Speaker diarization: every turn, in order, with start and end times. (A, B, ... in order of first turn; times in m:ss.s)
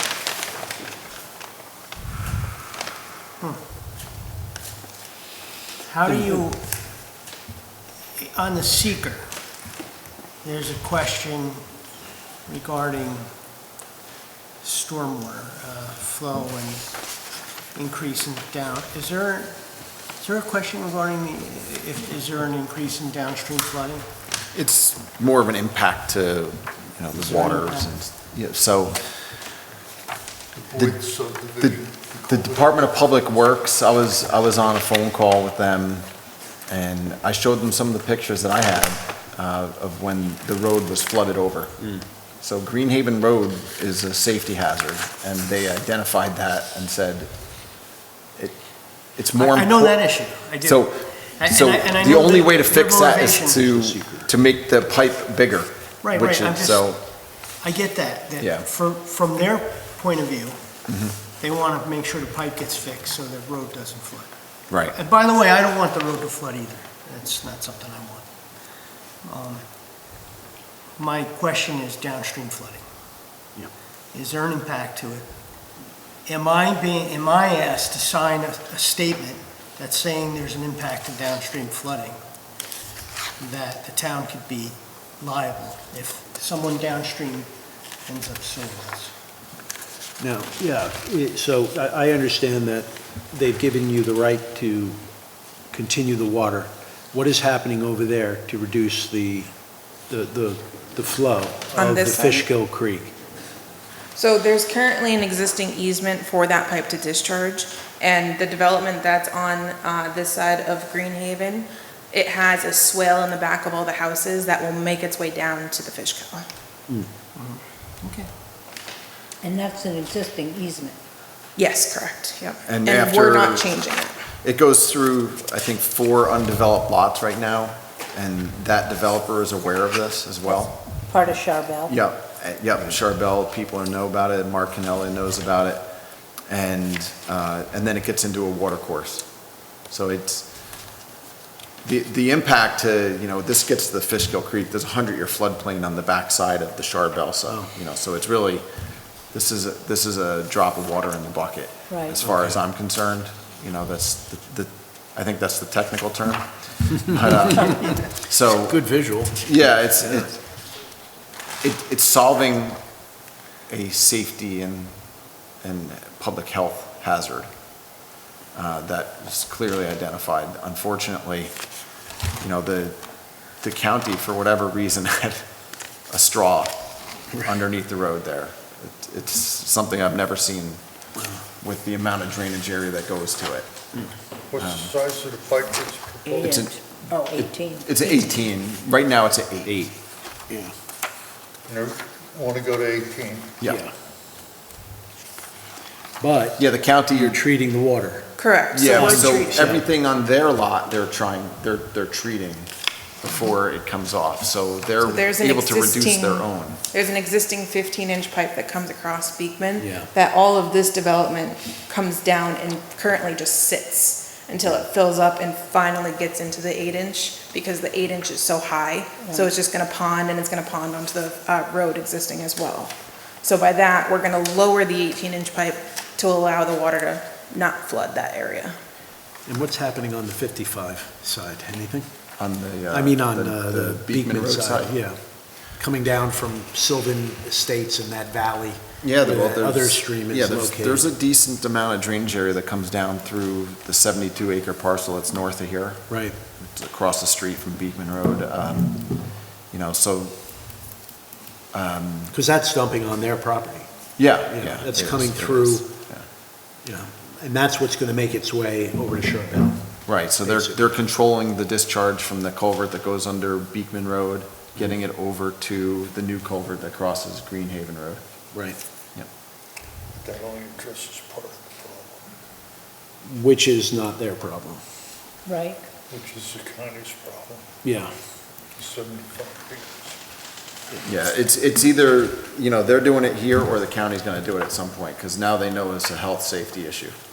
0:05.9-0:06.6 A
0:06.0-0:06.4 B
0:08.2-0:09.3 A
0:10.4-0:11.6 A
0:12.5-0:13.3 A
0:14.6-0:17.1 A
0:17.8-0:19.6 A
0:20.2-0:24.1 A
0:24.5-0:29.0 C
0:27.2-0:27.9 A
0:30.6-0:33.0 D
0:31.6-0:47.8 C
0:49.1-0:57.0 C
0:49.4-0:53.6 A
0:53.4-0:54.3 B
0:56.0-0:56.8 A
0:57.6-1:00.6 A
0:58.4-0:58.7 C
1:00.9-1:01.1 C
1:01.4-1:04.3 A
1:04.7-1:05.0 C
1:04.9-1:08.3 A
1:09.2-1:09.6 A
1:11.0-1:12.8 A
1:14.1-1:15.3 A
1:16.3-1:22.2 A
1:23.4-1:27.5 A
1:28.1-1:29.1 A
1:30.2-1:35.0 B
1:35.7-1:43.1 B
1:41.7-1:42.5 E
1:44.2-1:56.4 E
1:57.4-1:58.3 A
1:59.4-2:01.0 F
2:01.6-2:04.2 E
2:02.7-2:03.7 C
2:04.4-2:10.8 C
2:11.0-2:12.0 F
2:11.9-2:15.9 C
2:16.5-2:19.3 C
2:19.8-2:20.5 C
2:21.8-2:28.6 C
2:29.3-2:40.4 C
2:31.9-2:32.2 F
2:32.2-2:32.5 B
2:38.6-2:40.3 B
2:41.6-2:42.8 C
2:43.7-2:45.0 C
2:45.6-2:47.5 C
2:48.5-2:51.6 C
2:52.4-2:55.4 C
2:56.1-3:00.8 C
3:01.2-3:01.4 B
3:01.6-3:03.7 C
3:04.5-3:06.6 D
3:04.6-3:04.9 C
3:06.2-3:08.1 F
3:06.4-3:09.8 C
3:09.7-3:09.9 B
3:10.5-3:10.7 B
3:11.7-3:13.6 D
3:13.6-3:13.9 B
3:16.2-3:18.3 B
3:16.6-3:17.4 C
3:18.4-3:19.8 E
3:18.7-3:22.7 C
3:18.9-3:19.8 B
3:23.2-3:26.8 C
3:25.0-3:48.8 E
3:29.8-3:30.1 B
3:39.2-3:39.5 F
3:49.5-3:52.1 B
3:52.4-3:55.0 C
3:52.9-4:01.1 B
3:59.0-4:10.4 C
4:06.1-4:06.4 B
4:11.7-4:12.4 C
4:12.3-4:15.9 B
4:14.2-4:16.3 C
4:16.8-4:20.9 B
4:20.1-4:28.2 C
4:28.5-4:28.8 B
4:30.1-4:32.3 D
4:33.2-4:34.8 B
4:35.5-4:35.8 F
4:36.1-4:37.6 D
4:37.8-4:38.1 B
4:38.8-4:40.2 D
4:41.0-4:47.2 C